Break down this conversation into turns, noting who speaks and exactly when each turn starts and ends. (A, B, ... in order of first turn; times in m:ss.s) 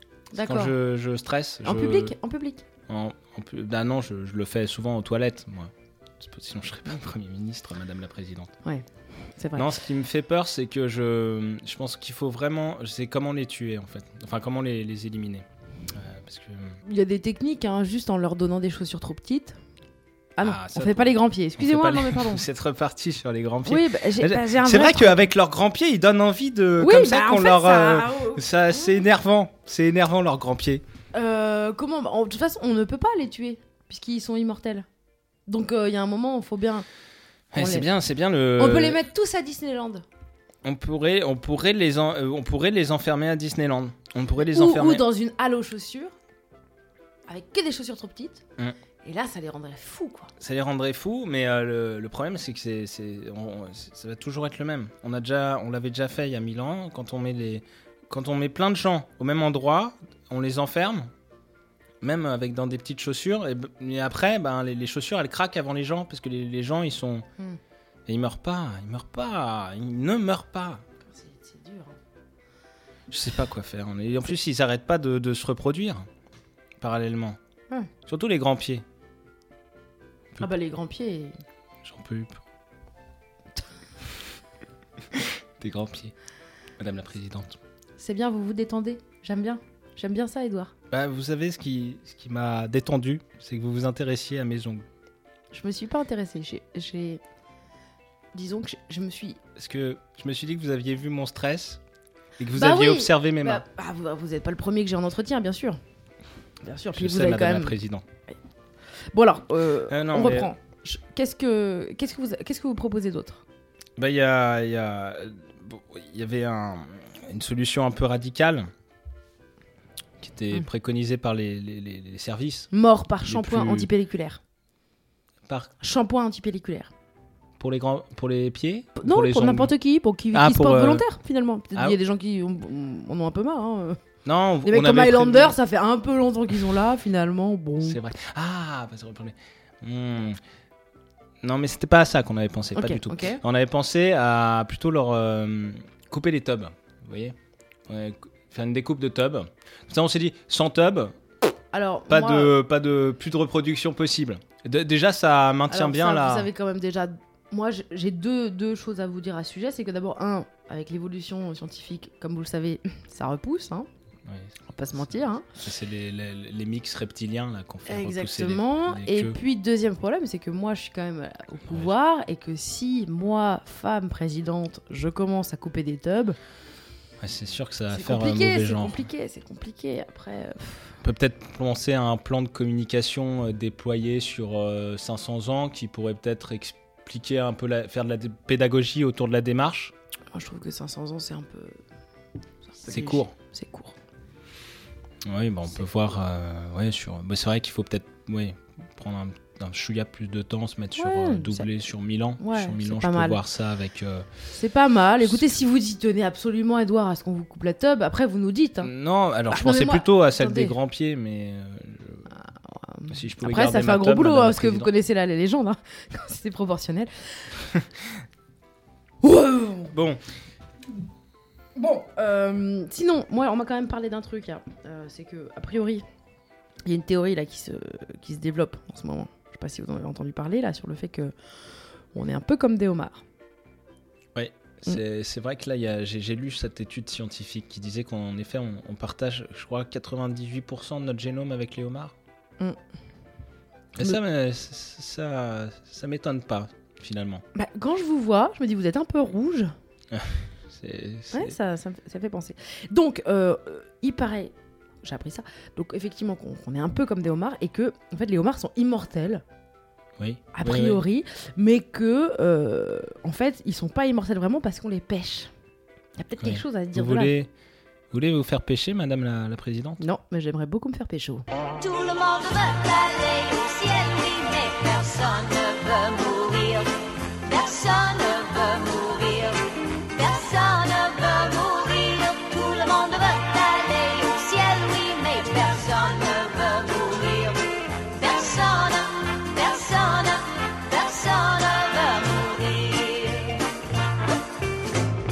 0:00.3-0:00.7 A
0:00.3-0:02.1 B
0:01.6-0:02.6 A
0:02.9-0:08.5 B
0:08.6-0:09.7 A
0:09.5-0:16.8 B
0:16.8-0:19.6 A
0:20.4-0:22.4 A
0:20.4-0:30.8 B
0:23.6-0:25.3 A
0:26.8-0:29.0 A
0:31.1-0:34.8 A
0:35.5-0:36.8 A
0:37.5-0:39.0 B
0:37.5-0:37.9 A
0:38.6-0:40.0 A
0:40.6-0:45.0 B
0:44.4-0:46.1 A
0:47.3-0:48.4 A
0:49.0-0:50.3 A
0:50.4-1:01.1 B
1:02.0-1:07.2 B
1:08.1-1:10.8 B
1:11.0-1:12.0 A
1:13.1-1:16.1 B
1:16.8-1:17.4 B
1:18.0-1:18.8 B
1:20.4-1:21.4 A
1:21.8-1:22.4 B
1:25.2-1:26.1 B
1:26.8-1:27.6 B
1:28.0-1:30.7 A
1:30.9-1:34.8 B
1:35.5-1:37.2 A
1:38.3-1:39.4 A
1:39.6-1:41.8 B
1:42.4-1:43.6 B
1:42.5-1:45.8 A
1:46.6-1:47.7 A
1:46.9-1:48.0 B
1:49.1-1:53.4 A
1:49.9-1:50.5 B
1:54.0-1:58.7 B
2:00.2-2:02.7 B
2:02.7-2:04.4 A
2:03.2-2:03.9 B
2:05.8-2:06.9 A
2:07.6-2:09.7 B
2:09.0-2:14.0 A
2:10.3-2:11.0 B
2:14.2-2:15.6 B
2:14.6-2:18.0 A
2:17.8-2:20.4 B
2:21.4-2:27.3 B
2:22.7-2:23.4 A
2:27.9-2:31.1 B
2:31.7-2:32.5 A
2:32.1-2:36.5 B
2:35.7-2:43.9 A
2:44.2-2:44.6 B
2:44.7-2:45.5 A
2:45.6-2:49.4 B
2:47.9-2:56.4 A
2:57.2-2:59.0 B
2:57.9-3:00.9 A
3:01.0-3:09.9 B
3:10.3-3:11.8 A
3:12.6-3:13.9 A
3:12.8-3:13.3 B
3:15.2-3:24.3 B
3:21.0-3:21.7 A
3:22.4-3:23.4 A
3:24.5-3:28.9 A
3:25.2-3:25.5 B
3:28.8-3:32.3 B
3:29.5-3:30.7 A
3:32.3-3:37.6 A
3:33.1-3:34.9 B
3:39.2-3:39.9 A
3:39.9-3:40.2 B
3:41.7-3:46.0 A
3:46.8-3:51.3 A
3:52.1-3:53.2 A
3:54.3-4:02.1 B
4:04.0-4:07.4 B
4:07.5-4:09.7 A
4:10.1-4:11.6 B
4:11.3-4:19.4 A
4:20.2-4:21.0 B
4:20.5-4:25.5 A
4:26.2-4:27.3 A
4:26.4-4:27.5 B
4:28.1-4:30.0 B
4:30.0-4:31.4 A
4:31.8-4:36.9 C
4:37.4-4:53.8 C